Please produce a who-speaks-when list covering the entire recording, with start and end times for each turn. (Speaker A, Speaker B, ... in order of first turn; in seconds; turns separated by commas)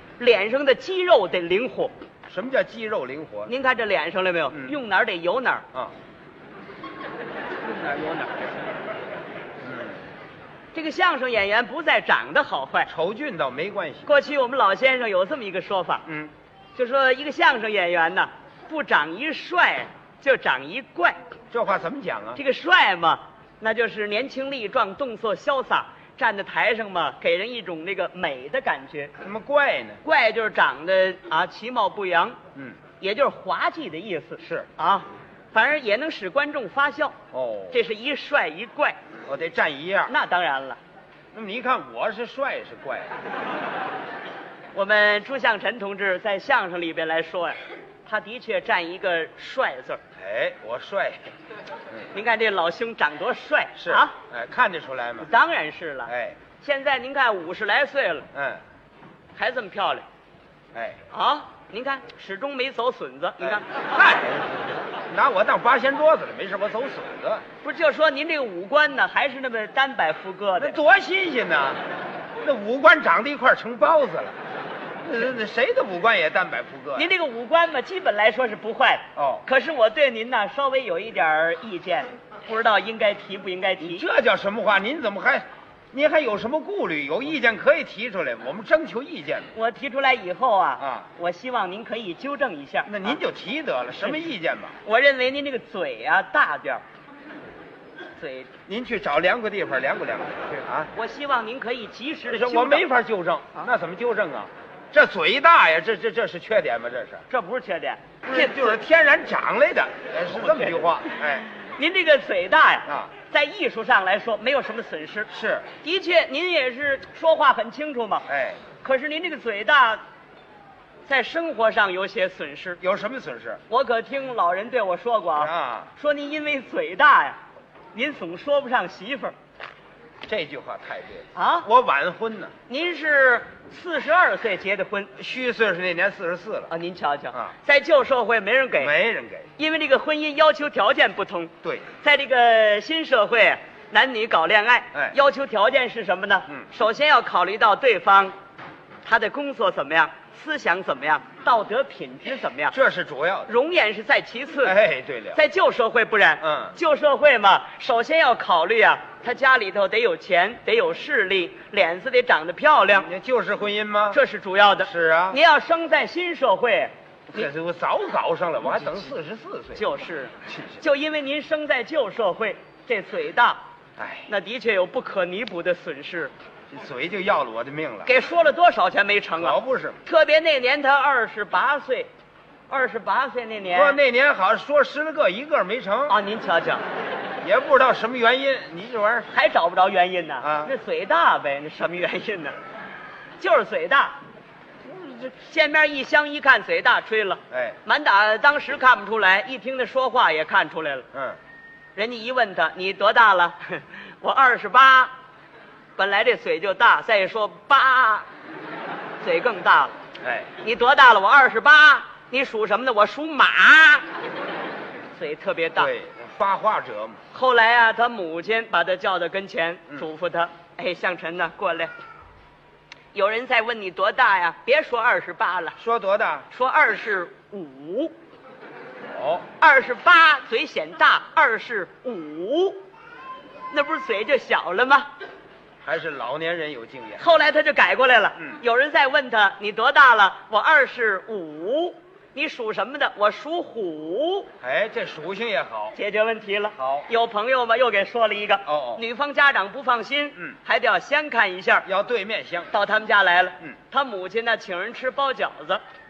Speaker A: 0.2-1.9, Speaker B: 2.3-3.5, Speaker A: 3.5-5.7, Speaker B: 7.7-8.2, Speaker B: 9.6-10.0, Speaker A: 10.7-12.9, Speaker B: 12.9-14.1, Speaker A: 14.1-16.1, Speaker B: 16.1-16.3, Speaker A: 16.8-21.2, Speaker B: 21.5-22.4, Speaker A: 22.4-29.1, Speaker B: 29.2-30.0, Speaker A: 30.0-32.4, Speaker B: 32.5-32.8, Speaker A: 33.0-37.1, Speaker B: 34.4-34.7, Speaker B: 37.3-37.8, Speaker A: 37.7-39.0, Speaker B: 39.3-40.1, Speaker A: 40.1-40.8, Speaker B: 41.3-43.1, Speaker A: 44.7-50.0, Speaker B: 50.2-51.2, Speaker A: 52.1-54.2, Speaker B: 53.8-55.3, Speaker A: 55.2-58.3, Speaker B: 56.1-56.4, Speaker B: 58.3-58.6, Speaker A: 59.4-60.0, Speaker B: 60.7-61.0, Speaker A: 61.1-63.8, Speaker B: 63.4-67.4, Speaker A: 67.6-70.8, Speaker B: 70.6-71.8, Speaker B: 72.4-74.3, Speaker B: 75.0-77.1, Speaker A: 77.0-84.0, Speaker B: 79.2-79.5, Speaker B: 83.8-89.5, Speaker A: 89.5-93.2, Speaker B: 90.8-91.1, Speaker B: 92.9-94.8, Speaker A: 94.8-96.8, Speaker A: 98.2-98.5, Speaker B: 98.7-100.9, Speaker A: 100.9-102.9, Speaker B: 102.3-107.2, Speaker A: 107.3-108.8, Speaker B: 108.2-111.5, Speaker A: 110.3-115.3, Speaker B: 112.9-113.1, Speaker B: 115.3-115.7, Speaker A: 115.8-118.3, Speaker B: 118.3-118.6, Speaker A: 118.8-120.0, Speaker A: 121.1-122.8, Speaker B: 122.8-123.6, Speaker A: 123.7-127.4, Speaker B: 125.4-125.9, Speaker A: 127.9-129.3, Speaker B: 130.2-132.5, Speaker A: 131.3-131.7, Speaker A: 132.7-135.2, Speaker B: 135.2-136.7, Speaker A: 136.7-138.9, Speaker B: 138.8-139.5, Speaker A: 139.6-148.3, Speaker B: 141.6-141.9, Speaker A: 149.1-152.8, Speaker B: 152.7-153.5, Speaker A: 153.5-154.8, Speaker B: 154.6-155.4, Speaker A: 155.3-163.1, Speaker B: 156.4-156.8, Speaker B: 163.0-164.2, Speaker A: 164.1-167.5, Speaker B: 164.8-165.4, Speaker B: 167.3-169.9, Speaker A: 169.8-173.6, Speaker B: 170.5-170.8, Speaker B: 174.0-174.3, Speaker A: 174.3-176.3, Speaker B: 176.7-178.1, Speaker A: 178.1-182.1, Speaker B: 179.4-180.0, Speaker A: 182.7-184.0, Speaker B: 183.7-186.2, Speaker A: 186.1-186.8, Speaker B: 187.4-189.3, Speaker A: 189.3-192.6, Speaker B: 190.4-190.7, Speaker A: 193.4-194.2, Speaker A: 195.1-201.1, Speaker B: 197.5-197.8, Speaker B: 201.1-201.4, Speaker A: 201.9-205.1, Speaker A: 206.0-208.3, Speaker A: 209.2-209.9, Speaker B: 210.2-210.5, Speaker A: 210.6-214.1, Speaker A: 215.1-215.9, Speaker B: 215.8-217.2, Speaker A: 217.3-221.9, Speaker A: 223.1-225.8, Speaker B: 225.8-226.5, Speaker A: 226.5-228.1, Speaker B: 229.1-229.5, Speaker A: 229.6-232.8, Speaker A: 233.7-235.1, Speaker B: 235.8-237.2, Speaker A: 237.2-244.5, Speaker B: 244.6-246.0, Speaker A: 245.9-251.9, Speaker B: 246.8-247.1, Speaker B: 248.7-249.0, Speaker B: 251.8-252.7, Speaker A: 252.7-255.8